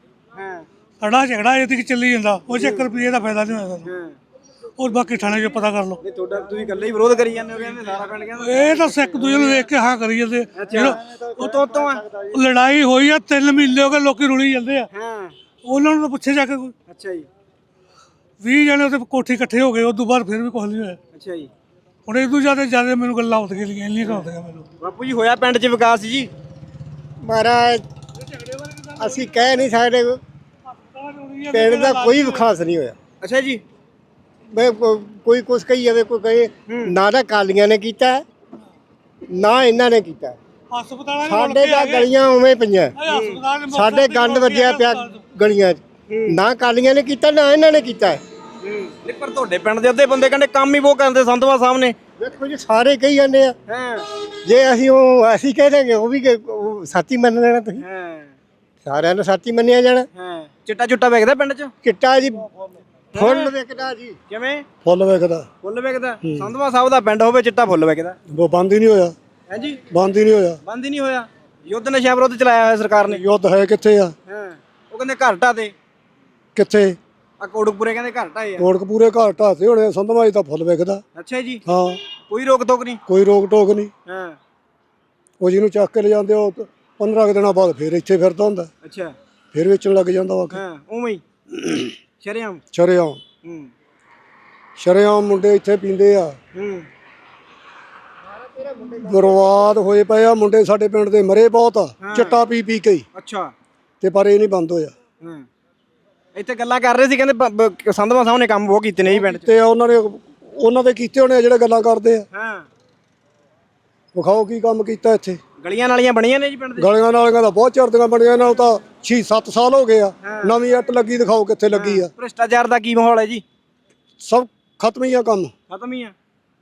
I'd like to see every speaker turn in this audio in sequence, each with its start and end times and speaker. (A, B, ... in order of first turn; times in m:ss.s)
0:00.3-0:00.7 A
0:01.0-0:03.9 B
0:02.5-0:02.9 A
0:03.8-0:04.2 A
0:04.8-0:06.0 B
0:06.0-0:09.6 A
0:08.4-0:11.6 B
0:10.5-0:12.0 A
0:12.2-0:14.9 B
0:14.9-0:15.3 A
0:15.6-0:16.7 B
0:16.9-0:17.3 A
0:18.4-0:21.0 B
0:21.1-0:21.5 A
0:22.1-0:24.7 B
0:24.0-0:24.3 A
0:24.8-0:26.3 A
0:27.2-0:27.8 C
0:28.5-0:29.1 B
0:29.0-0:30.2 C
0:30.8-0:32.4 B
0:31.5-0:33.0 C
0:33.2-0:33.6 A
0:34.5-0:38.2 C
0:36.7-0:36.9 A
0:39.3-0:40.4 C
0:40.7-0:42.1 B
0:41.2-0:43.0 C
0:43.0-0:45.2 B
0:43.1-0:43.4 A
0:43.7-0:48.2 C
0:46.1-0:46.3 A
0:48.6-0:52.0 A
0:52.2-0:53.5 C
0:53.7-0:54.0 A
0:54.4-0:57.8 C
0:57.8-0:58.4 A
0:58.8-1:00.1 C
1:00.1-1:01.7 A
1:01.8-1:02.5 C
1:03.1-1:03.5 A
1:03.2-1:04.2 C
1:04.3-1:04.6 A
1:04.8-1:05.5 D
1:05.6-1:08.2 A
1:06.2-1:06.5 D
1:08.3-1:09.1 D
1:09.5-1:09.8 A
1:09.9-1:10.6 D
1:10.6-1:13.2 A
1:13.1-1:14.1 D
1:14.3-1:15.7 A
1:16.6-1:17.0 D
1:17.4-1:18.7 A
1:18.6-1:21.0 D
1:21.2-1:21.6 A
1:21.6-1:22.0 D
1:22.3-1:23.0 A
1:23.1-1:23.9 D
1:24.1-1:24.4 A
1:25.4-1:28.7 D
1:28.8-1:29.1 A
1:29.5-1:30.6 D
1:30.5-1:31.2 A
1:31.5-1:31.9 D
1:32.2-1:32.6 A
1:32.7-1:33.2 D
1:33.4-1:33.7 A
1:34.8-1:36.4 D
1:36.5-1:36.9 A
1:39.0-1:43.0 D
1:42.0-1:42.4 A
1:43.1-1:43.5 A
1:44.0-1:44.9 D
1:45.2-1:45.4 A
1:46.3-1:49.5 A
1:49.0-1:52.2 D
1:52.3-1:52.7 A
1:54.1-1:55.4 D
1:55.6-1:56.9 A
1:56.8-2:02.1 D
2:00.2-2:00.5 A
2:01.7-2:03.4 A
2:04.2-2:05.5 D
2:05.7-2:06.1 A